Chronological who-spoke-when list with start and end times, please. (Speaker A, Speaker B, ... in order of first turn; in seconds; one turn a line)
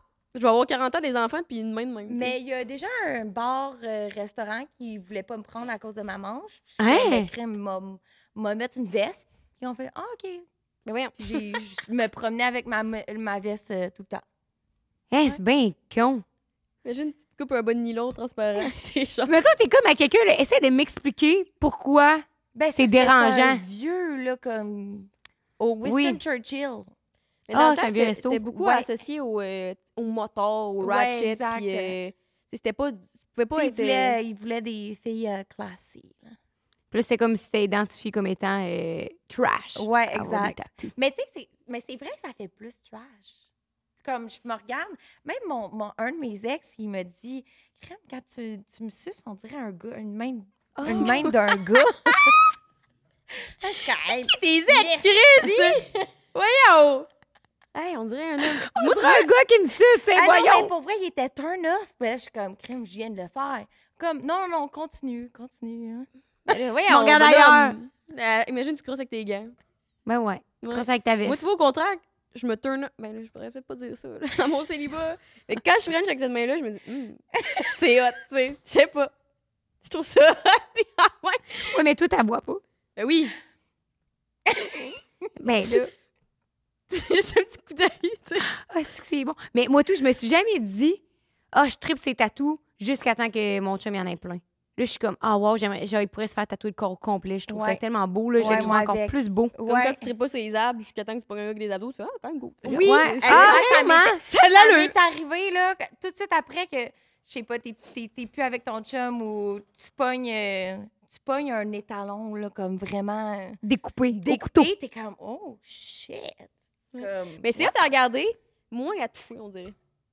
Speaker A: 0.3-2.3
Speaker B: 2.1-10.5
Speaker C: 6.8-7.3
Speaker A: 10.8-11.6
Speaker B: 11.2-14.2
Speaker C: 15.1-16.2
Speaker A: 16.8-19.4
Speaker C: 19.3-23.6
Speaker B: 22.6-26.9
Speaker C: 25.8-26.2
Speaker A: 27.5-34.2
Speaker C: 27.5-28.4
Speaker B: 28.5-28.9
Speaker B: 30.8-32.0
Speaker B: 33.5-36.4
Speaker C: 36.9-40.9
Speaker B: 39.8-43.4
Speaker B: 44.0-52.5
Speaker C: 50.8-51.4
Speaker B: 53.5-56.1
Speaker A: 54.0-57.1
Speaker A: 57.7-59.3
Speaker C: 58.4-60.7
Speaker B: 60.1-66.1
Speaker A: 66.5-69.5
Speaker C: 66.9-67.8
Speaker C: 70.1-71.4
Speaker A: 70.6-79.1
Speaker A: 79.8-81.8
Speaker C: 81.6-82.6
Speaker A: 83.0-83.4
Speaker B: 84.5-85.0
Speaker C: 85.4-85.9
Speaker A: 86.9-88.5
Speaker C: 88.6-91.0
Speaker C: 91.5-99.5
Speaker B: 97.5-97.8
Speaker B: 98.4-100.1
Speaker A: 98.4-98.8
Speaker A: 99.6-104.9
Speaker B: 102.6-117.7
Speaker C: 102.7-104.2
Speaker C: 113.6-114.7
Speaker A: 116.9-119.8